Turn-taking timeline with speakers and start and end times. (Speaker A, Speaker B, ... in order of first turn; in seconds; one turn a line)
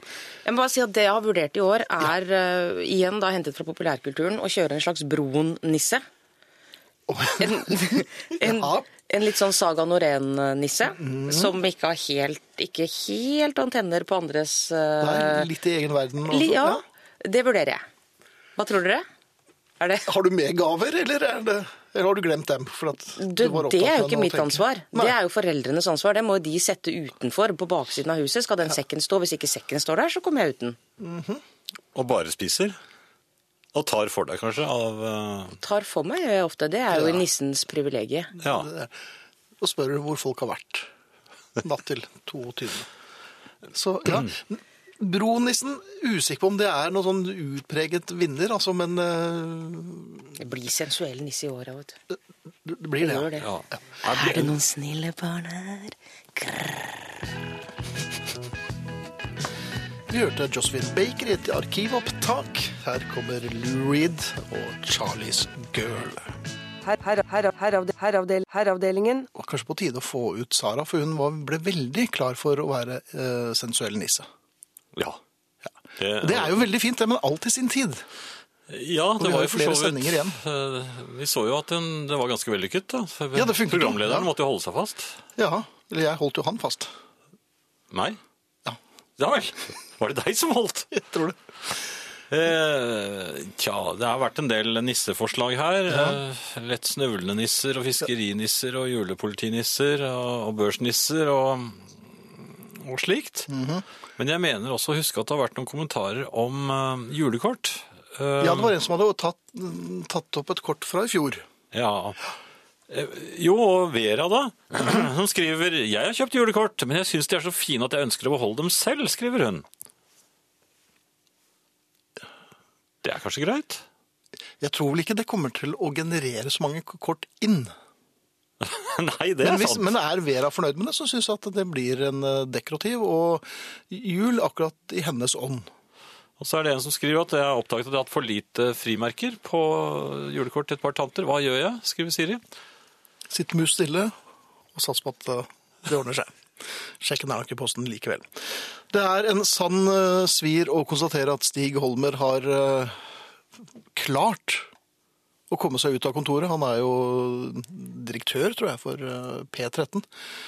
Speaker A: 0.4-6.0
Speaker B: 7.1-8.9
Speaker A: 7.4-15.5
Speaker B: 11.0-11.5
Speaker B: 15.0-16.8
Speaker A: 16.3-17.8
Speaker A: 18.6-19.0
Speaker A: 19.8-20.1
Speaker B: 20.1-25.1
Speaker A: 23.2-30.8
Speaker B: 31.0-31.4
Speaker C: 31.9-32.8
Speaker C: 33.7-35.6
Speaker A: 35.6-38.3
Speaker B: 36.9-37.2
Speaker B: 38.4-39.0
Speaker C: 38.4-38.7
Speaker B: 39.6-40.9
Speaker B: 41.6-42.9
Speaker B: 43.7-50.3
Speaker C: 44.1-44.4
Speaker A: 50.4-52.0
Speaker B: 52.1-53.3
Speaker A: 53.0-53.5
Speaker C: 53.4-54.5
Speaker A: 54.0-57.1
Speaker B: 60.1-66.3
Speaker D: 66.8-69.3
Speaker B: 69.3-74.3
Speaker C: 76.0-76.6
Speaker B: 76.2-78.0
Speaker C: 78.7-85.2
Speaker B: 79.2-80.4
Speaker B: 83.3-84.3
Speaker B: 85.4-86.9
Speaker C: 87.9-88.2
Speaker C: 89.2-91.0
Speaker B: 90.9-91.4
Speaker C: 92.3-103.5
Speaker B: 95.9-96.2
Speaker B: 103.5-103.8
Speaker C: 104.2-108.7
Speaker B: 108.4-111.5
Speaker C: 111.7-112.2
Speaker C: 112.9-119.6
Speaker C: 123.0-123.8
Speaker B: 124.6-127.7
Speaker C: 128.6-129.9
Speaker B: 129.4-135.7
Speaker C: 136.4-142.4
Speaker B: 143.3-144.1
Speaker B: 144.7-146.4
Speaker B: 147.0-153.0
Speaker B: 153.9-154.7
Speaker B: 155.5-160.1